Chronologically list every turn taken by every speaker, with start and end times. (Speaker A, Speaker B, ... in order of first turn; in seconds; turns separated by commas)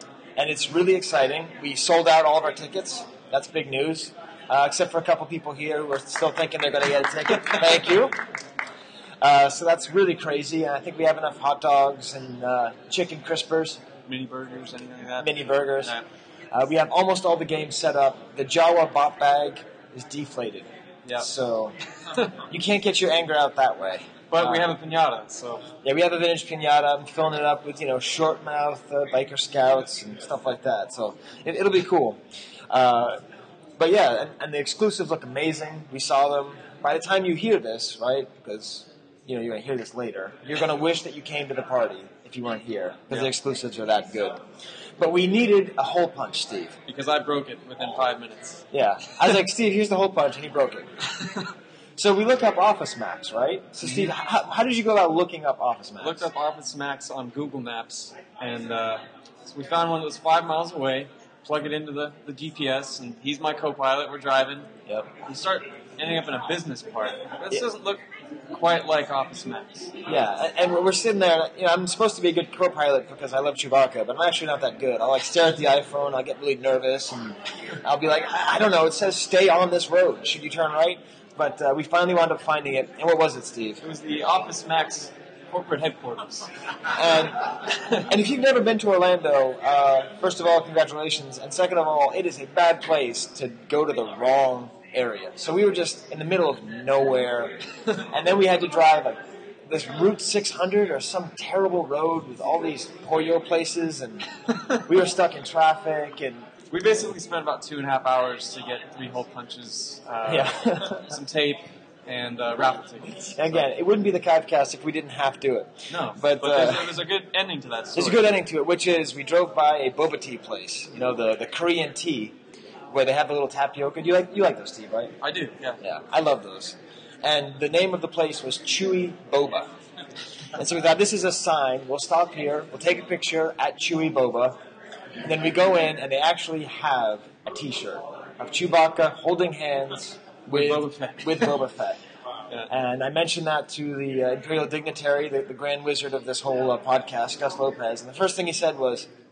Speaker A: 0.3-8.1, Speaker A: 9.2-13.8, Speaker B: 14.1-16.0, Speaker A: 15.2-15.9, Speaker A: 16.5-21.7, Speaker A: 22.5-24.7, Speaker B: 24.3-25.6, Speaker A: 25.8-33.2, Speaker A: 33.8-44.4, Speaker A: 45.0-46.7, Speaker B: 46.9-48.6, Speaker A: 48.7-50.9, Speaker A: 52.0-56.3, Speaker B: 56.0-64.7, Speaker B: 65.2-69.9, Speaker A: 70.0-83.8, Speaker B: 83.8-86.5, Speaker A: 86.9-106.5, Speaker B: 106.7-113.7, Speaker A: 110.2-111.1, Speaker A: 113.3-117.0, Speaker B: 115.9-118.3, Speaker A: 118.0-122.3, Speaker A: 122.9-125.1, Speaker B: 125.2-125.8, Speaker A: 125.8-129.7, Speaker A: 130.5-134.6, Speaker A: 135.2-142.0, Speaker B: 140.5-141.6, Speaker A: 142.7-149.1